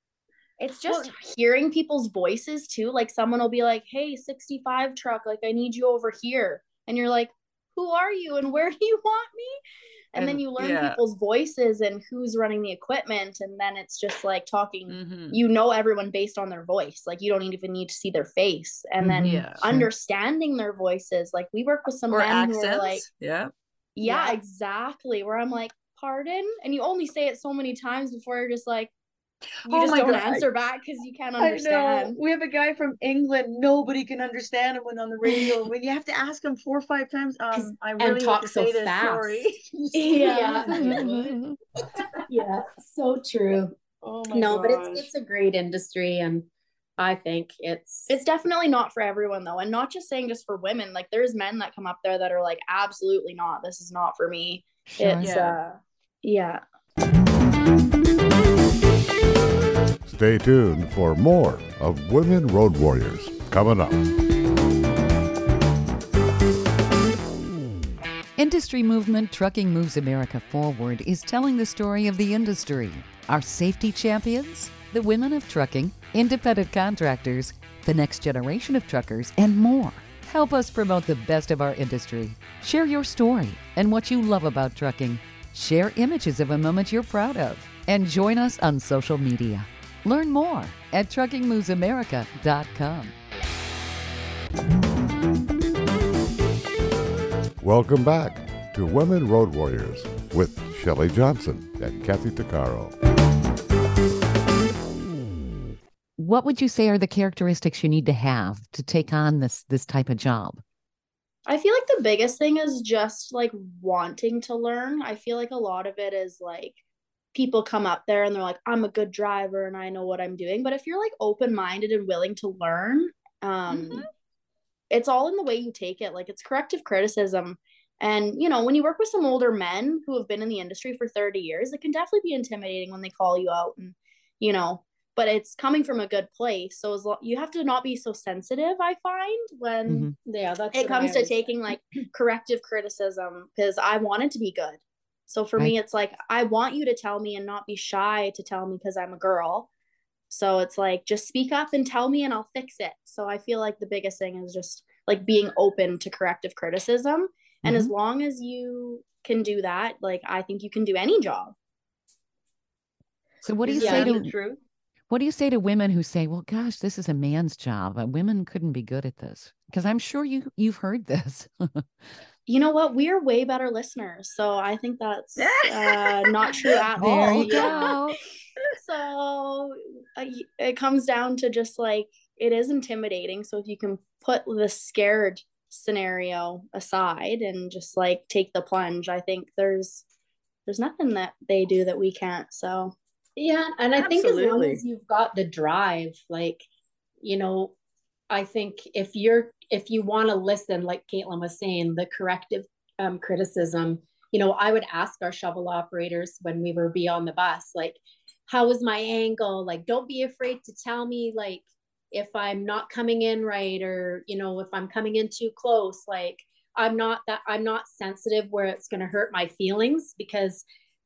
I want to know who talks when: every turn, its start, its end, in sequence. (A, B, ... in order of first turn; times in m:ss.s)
0:00.6-0:09.6 A
0:00.9-0:01.1 B
0:10.1-0:23.0 A
0:10.2-0:11.0 B
0:14.9-0:15.4 B
0:19.0-0:19.9 C
0:19.2-0:19.7 B
0:22.1-0:23.5 B
0:24.0-0:28.9 A
0:24.0-0:24.4 D
0:29.6-0:30.5 B
0:29.7-0:32.2 A
0:31.4-0:41.5 B
0:37.5-0:39.5 D
0:40.0-0:41.2 A
0:40.1-0:41.0 D
0:42.3-0:43.8 D
0:44.0-0:45.1 B
0:44.3-0:48.1 D
0:48.1-0:56.6 A
0:54.9-0:55.3 C
0:55.2-0:55.6 B
1:00.1-1:04.0 E
1:08.4-1:33.1 C
1:37.6-1:42.9 E
1:46.2-1:50.6 C
1:51.5-1:56.8 A
1:57.3-2:04.0 A
2:03.7-2:04.1 B
2:04.9-2:20.1 A
2:19.9-2:20.2 C
2:20.2-2:21.5 D
2:20.7-2:29.7 A
2:30.3-2:41.6 A
2:37.6-2:37.9 C
2:43.4-2:44.3 C
2:43.6-2:44.6 B
2:43.8-2:44.2 D
2:45.1-2:51.9 C
2:52.5-2:58.0 A
2:55.4-2:57.7 B
2:57.0-2:58.2 C
2:57.4-2:57.9 D
2:58.7-3:10.0 A
3:10.7-3:13.0 A
3:13.4-3:16.7 D
3:14.0-3:14.8 B
3:17.2-3:17.8 D
3:18.3-3:40.6 D